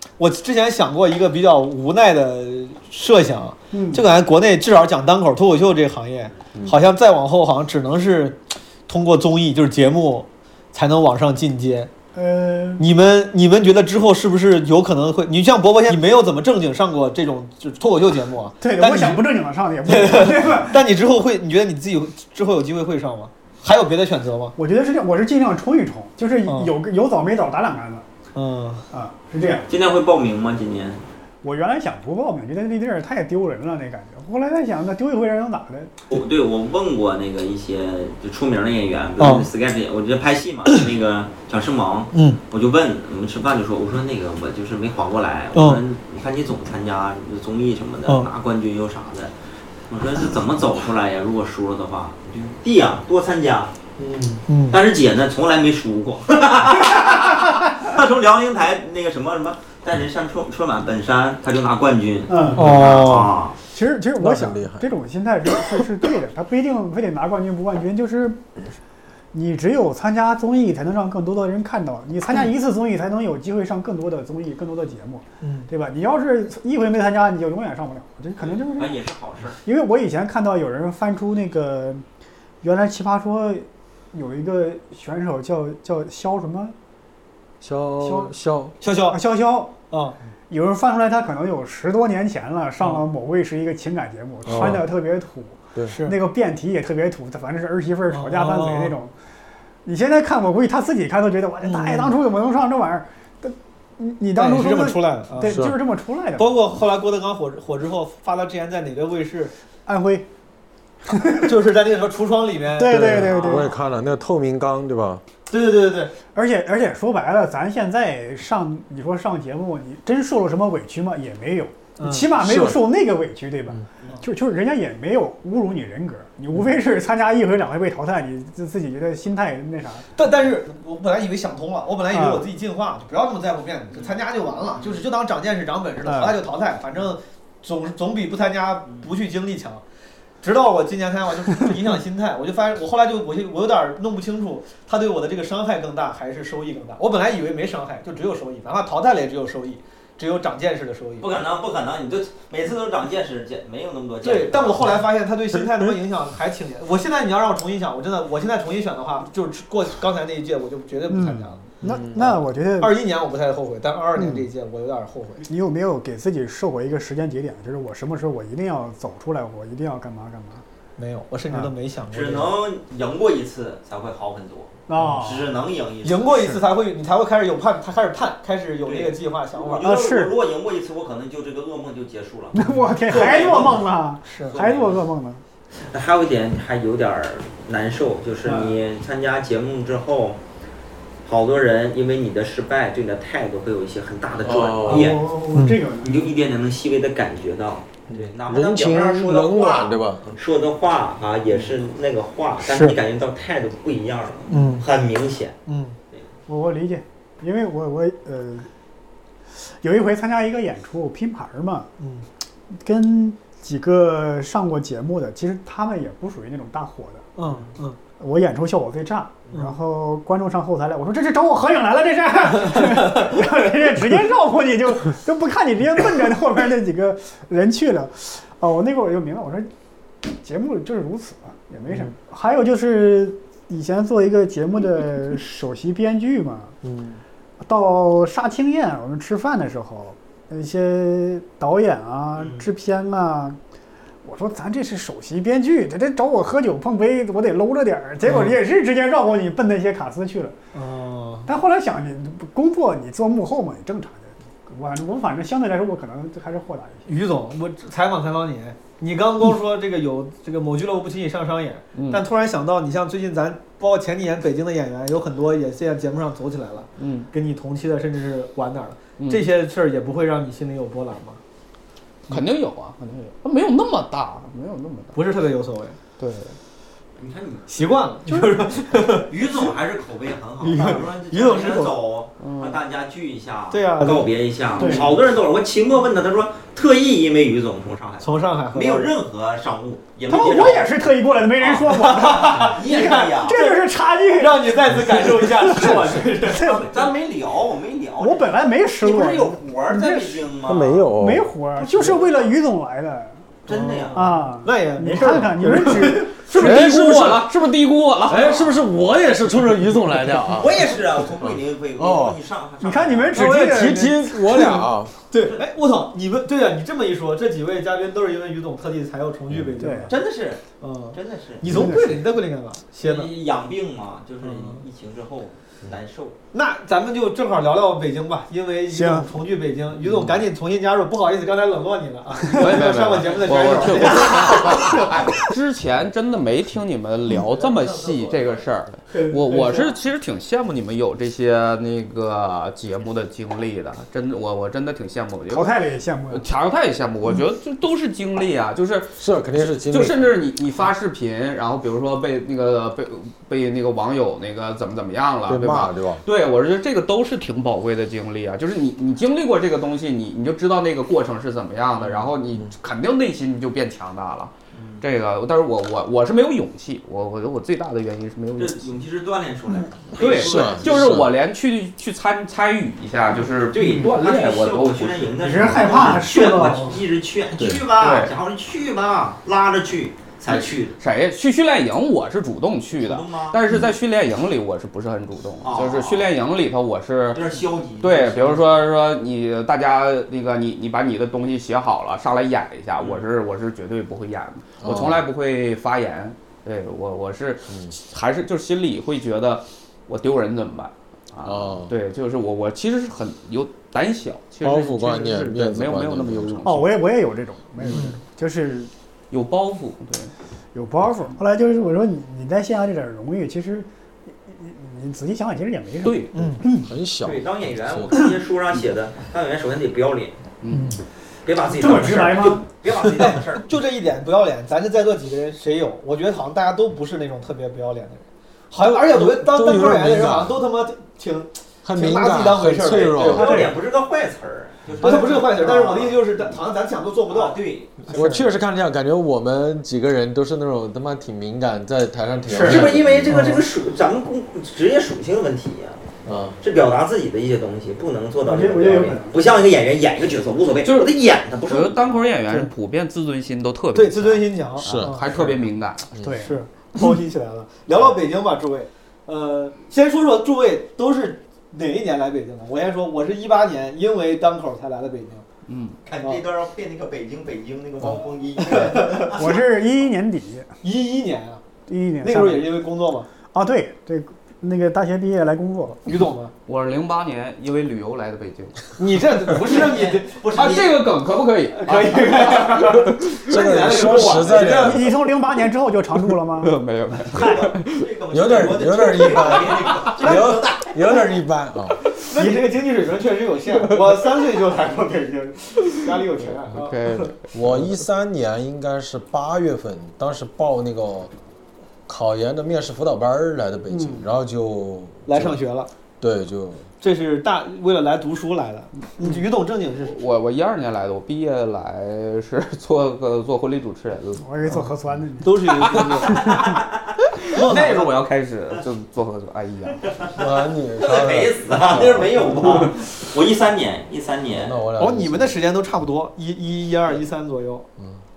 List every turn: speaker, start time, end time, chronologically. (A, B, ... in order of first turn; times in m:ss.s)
0:00.2-0:11.9 A
0:03.7-0:04.0 B
0:12.1-0:12.8 B
0:12.8-0:19.3 A
0:18.6-0:20.8 B
0:19.8-0:24.6 A
0:24.6-0:28.0 B
0:26.4-0:26.7 A
0:28.3-0:28.9 A
0:28.9-0:29.7 B
0:29.7-0:31.0 C
0:31.4-0:35.9 B
0:36.1-0:49.3 C
0:39.2-0:39.5 A
0:42.1-0:42.4 A
0:45.5-0:45.8 A
0:49.9-0:53.7 C
0:54.0-0:54.3 D
0:54.4-0:54.8 A
0:54.7-1:03.5 C
1:02.3-1:02.7 B
1:02.5-1:03.3 A
1:03.7-1:08.4 B
1:04.2-1:04.9 D
1:09.3-1:19.0 B
1:15.4-1:15.7 A
1:18.4-1:19.6 C
1:19.6-1:22.0 B
1:22.6-1:26.7 B
1:27.6-1:28.8 D
1:28.0-1:28.3 B
1:28.8-1:29.2 A
1:29.1-1:29.7 B
1:29.9-1:30.2 A
1:30.5-1:39.1 B
1:32.8-1:33.0 A
1:34.4-1:34.9 D
1:35.9-1:36.2 A
1:38.1-1:39.0 A
1:39.8-1:46.6 B
1:41.6-1:42.2 A
1:44.3-1:45.6 A
1:45.4-1:45.8 D
1:46.4-1:49.5 A
1:49.8-1:50.3 B
1:51.0-1:51.5 B
1:51.3-1:53.7 A
1:52.8-1:53.8 B
1:52.8-1:55.2 D
1:55.5-1:56.1 A
1:56.3-2:10.1 B
2:02.0-2:02.3 A
2:02.4-2:02.8 D
2:10.1-2:19.8 A
2:12.1-2:12.5 B
2:16.0-2:16.4 B
2:20.4-2:31.4 A
2:31.2-2:35.0 C
2:34.2-2:41.7 A
2:41.1-2:43.0 B
2:41.8-2:42.4 D
2:42.8-2:45.4 A
2:44.2-2:44.4 B
2:45.4-2:50.6 B
2:51.0-2:52.5 A
2:52.1-2:56.4 C
2:54.9-2:55.5 B
2:54.9-2:55.2 A
2:56.0-2:59.8 A
2:58.8-3:03.8 C
2:59.8-3:00.4 B
3:02.5-3:05.4 B
3:03.1-3:03.5 A
3:04.2-3:04.6 A
3:04.5-3:05.0 C
3:05.9-3:10.4 C
3:08.4-3:08.8 B
3:11.2-3:15.2 C
3:14.4-3:15.2 D
3:14.9-3:16.3 B
3:15.5-3:15.8 A
3:16.0-3:25.5 C
3:18.1-3:20.3 D
3:24.5-3:24.8 A
3:25.6-3:26.0 A
3:26.5-3:28.7 B
3:29.6-3:31.9 B
3:32.0-3:32.2 A
3:32.8-3:37.3 B
3:37.4-3:38.0 A
3:38.2-3:49.7 B
3:39.5-3:39.8 A
3:50.2-3:56.8 B
3:56.9-3:57.2 D
3:57.6-4:03.6 B
4:02.4-4:02.6 C
4:04.2-4:10.5 B
4:08.2-4:08.6 A
4:10.7-4:11.5 A
4:11.4-4:17.1 B
4:17.0-4:31.4 A
4:21.9-4:22.2 E
4:27.0-4:27.3 E
4:29.2-4:29.4 E
4:32.3-4:35.2 E
4:35.1-4:36.0 A
4:36.2-4:36.6 E
4:37.2-4:38.0 C
4:37.7-4:39.7 A
4:38.3-4:38.7 B
4:39.3-4:50.9 C
4:40.6-4:41.9 A
4:40.7-4:41.0 B
4:42.4-4:42.8 E
4:43.7-4:45.1 A
4:44.8-4:45.1 B
4:48.2-4:49.1 A
4:50.3-4:57.1 B
4:51.6-4:53.6 C
4:51.7-4:56.9 A
4:56.5-5:01.0 C
4:58.2-5:00.5 B
5:00.6-5:01.5 D
5:01.1-5:03.4 B
5:01.9-5:02.5 C
5:03.6-5:04.4 C
5:03.7-5:06.6 A
5:04.1-5:06.5 B
5:06.3-5:08.8 E
5:06.5-5:07.7 D
5:08.2-5:12.4 D
5:10.6-5:13.5 C
5:12.8-5:14.7 B
5:13.3-5:15.2 D
5:15.3-5:20.1 A
5:19.8-5:20.1 B
5:20.1-5:21.8 C
5:20.8-5:23.3 A
5:21.6-5:22.2 B
5:23.0-5:26.4 C
5:24.4-5:24.8 A
5:26.5-5:35.1 A
5:28.9-5:29.3 B
5:32.5-5:45.8 E
5:39.1-5:39.9 A
5:45.5-5:46.4 B
5:46.3-6:08.9 E
5:49.2-5:50.3 D
5:55.4-5:56.2 D
6:04.7-6:05.0 C
6:08.6-6:11.1 C
6:10.2-6:16.0 E
6:10.2-6:11.3 D
6:13.6-6:21.0 C
6:15.4-6:17.0 B
6:17.6-6:17.8 D
6:17.9-6:18.3 E
6:21.0-6:27.4 E
6:23.0-6:23.6 C
6:25.6-6:26.3 C
6:27.3-6:28.6 C
6:28.0-6:47.0 E
6:33.0-6:33.2 C
6:34.8-6:35.3 D
6:37.7-6:38.0 D
6:41.4-6:41.9 D
6:44.6-6:46.6 D
6:46.6-6:48.9 B
6:47.9-6:48.2 A
6:49.3-6:50.3 E
6:50.7-6:53.9 B
6:54.5-6:56.9 B
6:56.0-6:56.5 E
6:56.3-6:56.6 A
6:56.7-6:58.1 D
6:57.2-7:00.4 C
7:00.6-7:01.0 E
7:00.7-7:01.0 A
7:01.4-7:03.6 C
7:01.6-7:02.6 B
7:03.2-7:13.7 A
7:09.1-7:10.6 D
7:11.8-7:13.7 D
7:13.1-7:16.1 C
7:15.0-7:17.6 A
7:15.0-7:16.0 B
7:17.3-7:18.1 C
7:18.1-7:23.5 D
7:22.5-7:22.8 B
7:22.6-7:26.0 C
7:26.2-7:26.6 D
7:26.6-7:32.2 C
7:28.4-7:29.4 B
7:30.8-7:31.1 E
7:31.7-7:36.1 E
7:33.9-7:35.5 A
7:34.8-7:35.6 D
7:36.2-7:36.6 B
7:36.4-7:45.4 A
7:45.7-7:46.0 E
7:46.0-7:49.6 C
7:48.6-7:49.3 A
7:49.2-7:50.7 B
7:50.8-7:51.6 A
7:51.9-7:52.7 B
7:52.2-7:53.3 A
7:53.5-7:56.0 B
7:56.0-7:56.5 A
7:56.6-7:58.9 E
7:59.0-8:01.0 A
7:59.5-8:01.0 C
8:00.6-8:03.4 E
8:01.7-8:05.1 A
8:03.4-8:05.1 D
8:04.3-8:06.8 B
8:06.6-8:08.0 E
8:07.3-8:11.0 C
8:08.3-8:12.0 D
8:12.2-8:17.3 A
8:16.5-8:17.9 E
8:17.5-8:21.3 D
8:22.1-8:25.6 D
8:23.9-8:24.2 B
8:25.2-8:25.9 A
8:26.2-8:26.9 D
8:27.0-8:30.1 A
8:30.0-8:34.4 E
8:34.4-8:35.6 B
8:35.4-8:36.4 A
8:35.7-8:36.6 E
8:36.2-8:36.7 B
8:37.3-8:40.1 E
8:37.5-8:38.1 A
8:40.3-8:42.2 D
8:41.0-8:44.8 C
8:44.5-8:45.6 D
8:45.0-8:47.9 A